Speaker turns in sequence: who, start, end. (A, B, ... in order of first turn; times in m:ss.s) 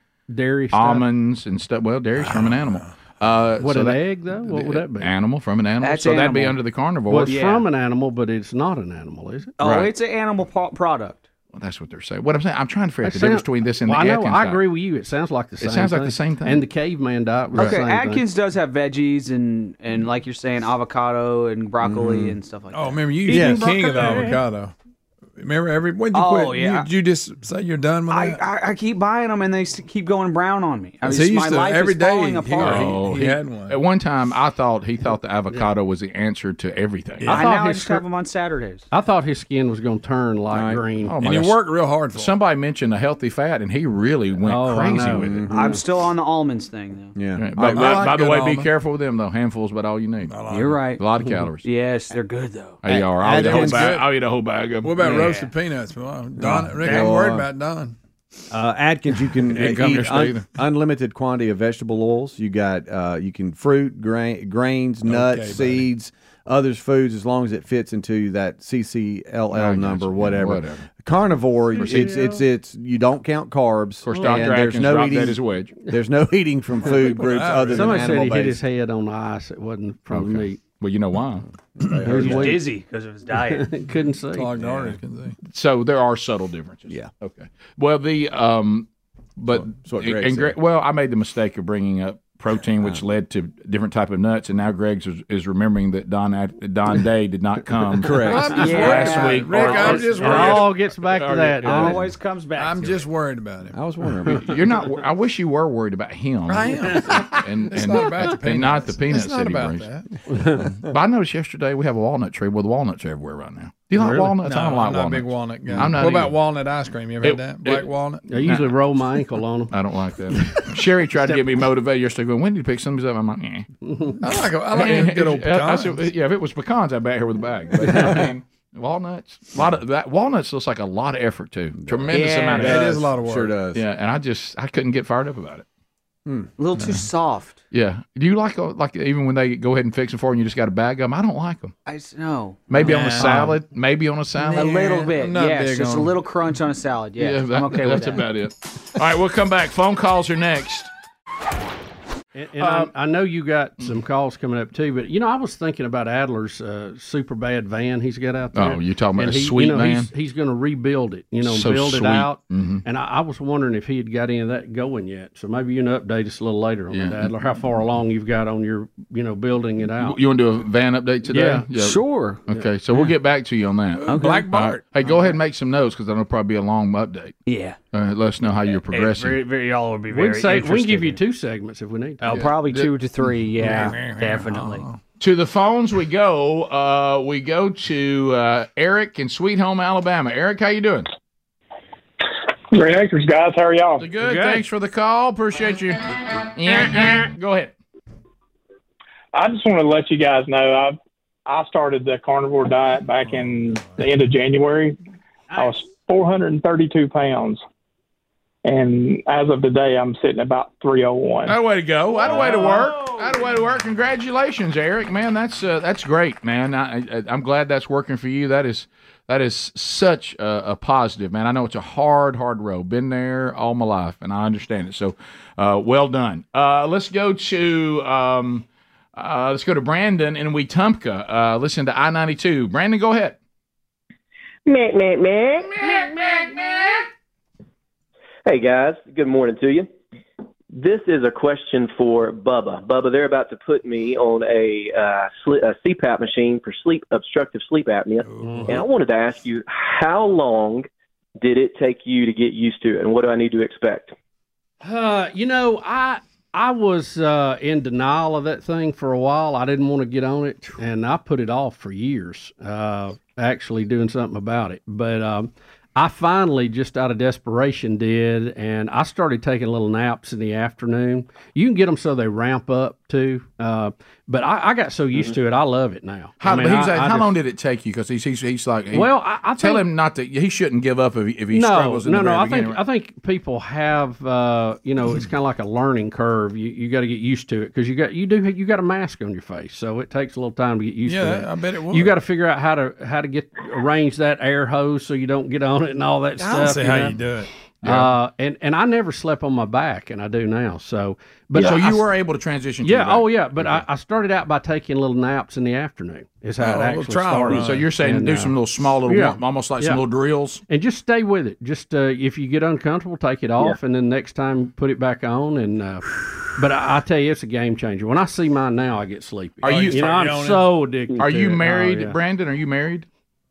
0:00.3-0:01.0 A
0:00.7-0:07.4 B
0:02.3-0:02.7 C
0:03.6-0:05.1 A
0:05.8-0:06.6 D
0:07.1-0:09.5 A
0:07.3-0:07.6 D
0:09.6-0:11.2 D
0:09.6-0:09.9 B
0:11.5-0:14.6 B
0:13.0-0:18.2 A
0:15.6-0:16.6 B
0:17.6-0:24.2 D
0:21.8-0:22.4 E
0:22.7-0:24.7 C
0:23.3-0:24.0 E
0:25.4-0:28.4 C
0:26.1-0:26.9 D
0:28.1-0:32.9 D
0:31.0-0:33.8 C
0:32.6-0:37.4 B
0:37.2-0:37.5 C
0:37.3-0:38.0 A
0:37.3-0:38.9 D
0:38.9-0:41.2 A
0:40.5-0:40.8 E
0:41.1-0:41.6 B
0:41.2-0:42.3 C
0:42.1-0:45.4 B
0:44.5-0:45.8 A
0:45.1-0:45.8 E
0:45.5-0:47.2 D
0:47.2-0:48.1 E
0:47.4-0:50.3 B
0:47.6-0:48.7 C
0:50.3-0:50.8 C
0:50.5-0:51.0 D
0:51.0-0:51.6 B
0:51.6-0:52.8 D
0:52.8-0:55.2 B
0:52.9-0:54.0 E
0:53.3-0:54.1 C
0:54.8-0:58.0 C
0:55.1-0:55.5 D
0:56.4-0:57.5 E
0:58.5-1:18.6 E
0:59.6-1:00.4 B
0:59.6-1:00.1 C
1:05.0-1:05.9 C
1:09.5-1:10.9 B
1:11.8-1:12.4 A
1:11.8-1:12.1 B
1:14.1-1:15.7 B
1:16.9-1:18.2 C
1:17.7-1:20.6 A
1:20.1-1:21.4 B
1:21.8-1:22.6 E
1:22.0-1:22.7 A
1:22.2-1:23.7 D
1:23.3-1:24.6 A
1:24.3-1:25.4 C
1:25.4-1:40.5 B
1:29.5-1:30.6 E
1:38.0-1:38.6 E
1:38.3-1:40.7 C
1:38.6-1:40.6 D
1:40.0-1:42.0 A
1:41.1-1:42.0 B
1:41.6-1:43.1 D
1:42.6-1:43.8 C
1:43.7-1:44.6 E
1:44.4-1:49.9 B
1:46.5-1:50.1 C
1:50.3-1:50.6 A
1:50.8-1:56.4 B
1:54.4-1:58.3 C
1:57.2-1:57.9 B
1:58.3-1:59.7 A
1:58.4-1:58.7 B
1:59.7-2:03.7 B
2:03.9-2:04.2 A
2:04.2-2:06.1 C
2:04.7-2:12.9 B
2:11.8-2:13.8 E
2:12.1-2:12.7 D
2:12.5-2:13.6 C
2:13.7-2:15.6 B
2:16.6-2:17.6 D
2:17.7-2:21.7 B
2:21.9-2:23.2 D
2:22.7-2:24.7 B
2:22.8-2:23.6 C
2:24.4-2:26.2 C
2:24.5-2:28.2 D
2:27.2-2:30.9 B
2:32.4-2:50.2 A
2:32.6-2:32.9 B
2:38.6-2:40.1 B
2:41.4-2:42.8 B
2:46.9-2:47.3 B
2:50.0-2:57.4 B
2:51.3-2:51.7 A
2:51.8-2:52.4 D
2:54.0-2:55.2 C
2:54.1-2:54.5 D
2:57.5-2:57.8 D
2:57.9-2:59.4 B
2:58.7-3:01.2 D
3:00.1-3:02.4 A
3:02.2-3:02.5 C
3:02.2-3:04.8 D
3:03.6-3:05.0 C
3:05.2-3:11.1 B
3:12.7-3:14.0 F
3:14.0-3:17.7 B
3:14.2-3:14.6 A
3:19.3-3:25.0 F
3:23.3-3:24.0 C
3:25.5-3:27.6 F
3:28.6-3:31.6 F
3:31.5-3:48.6 B
3:49.2-3:53.4 B
3:54.7-3:57.0 G
3:58.5-3:59.9 G
4:00.7-4:10.9 G
4:08.2-4:08.8 C
4:08.4-4:08.8 A
4:11.4-4:14.1 G
4:14.8-4:37.3 A
4:36.4-4:42.8 B
4:38.9-4:39.9 A
4:41.5-4:57.2 A
4:51.1-4:52.2 C
4:56.4-4:57.5 C
4:57.8-4:58.1 B
4:57.8-5:02.0 A
5:01.6-5:03.8 B
5:02.8-5:08.6 A
5:06.6-5:07.9 C
5:07.5-5:10.6 B
5:09.1-5:10.0 A
5:10.7-5:22.2 A
5:19.6-5:20.1 B
5:19.6-5:20.7 C
5:21.2-5:23.1 B